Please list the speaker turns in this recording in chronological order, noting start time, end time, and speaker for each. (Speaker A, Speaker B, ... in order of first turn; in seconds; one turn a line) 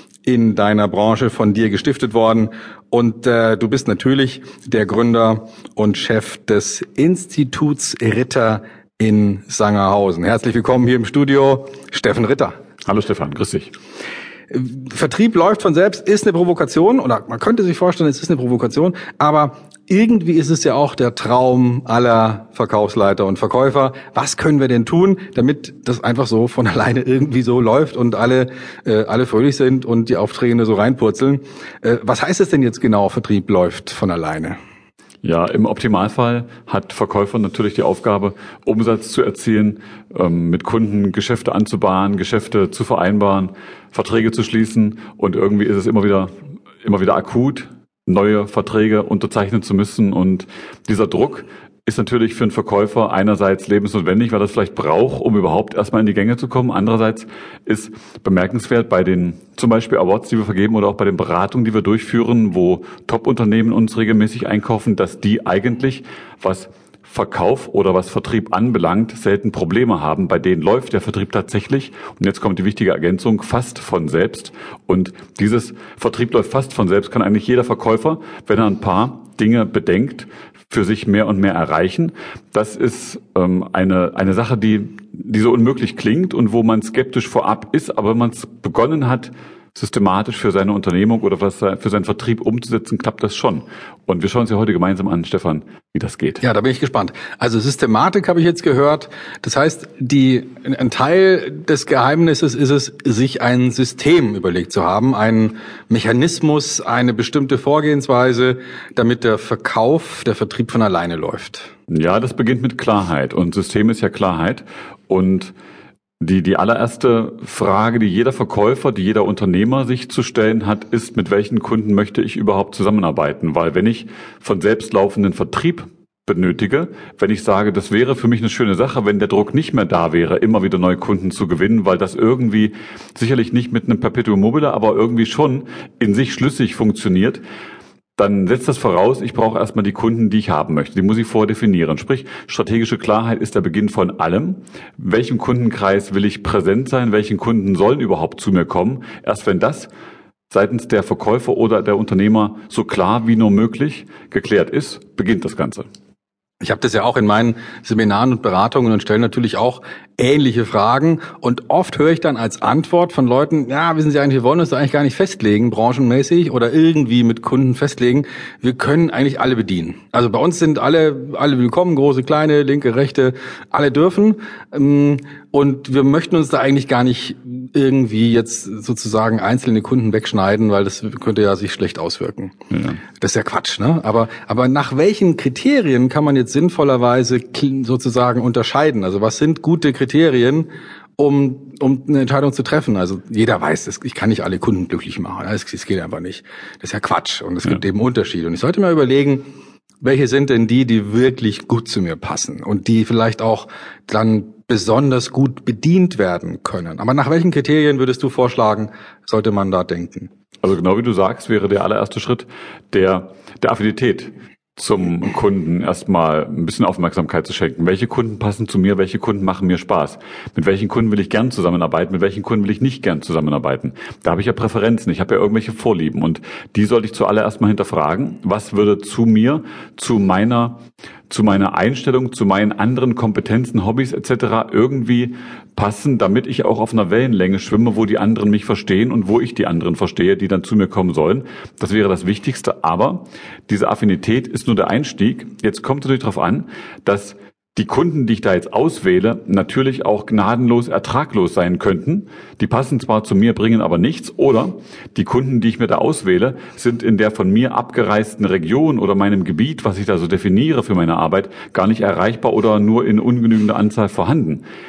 Speaker A: 0.3-12.6
Speaker B: 12.9-13.7
Speaker A: 14.5-34.6
Speaker B: 35.2-46.3
Speaker B: 46.8-96.4
Speaker A: 96.4-111.7
Speaker B: 111.9-115.5
Speaker B: 116.2-137.4
Speaker B: 138.2-149.9
Speaker B: 150.5-155.8
Speaker A: 156.6-182.5
Speaker B: 182.7-183.0
Speaker A: 183.2-199.4
Speaker A: 200.0-210.3
Speaker B: 210.6-230.8
Speaker B: 231.3-264.6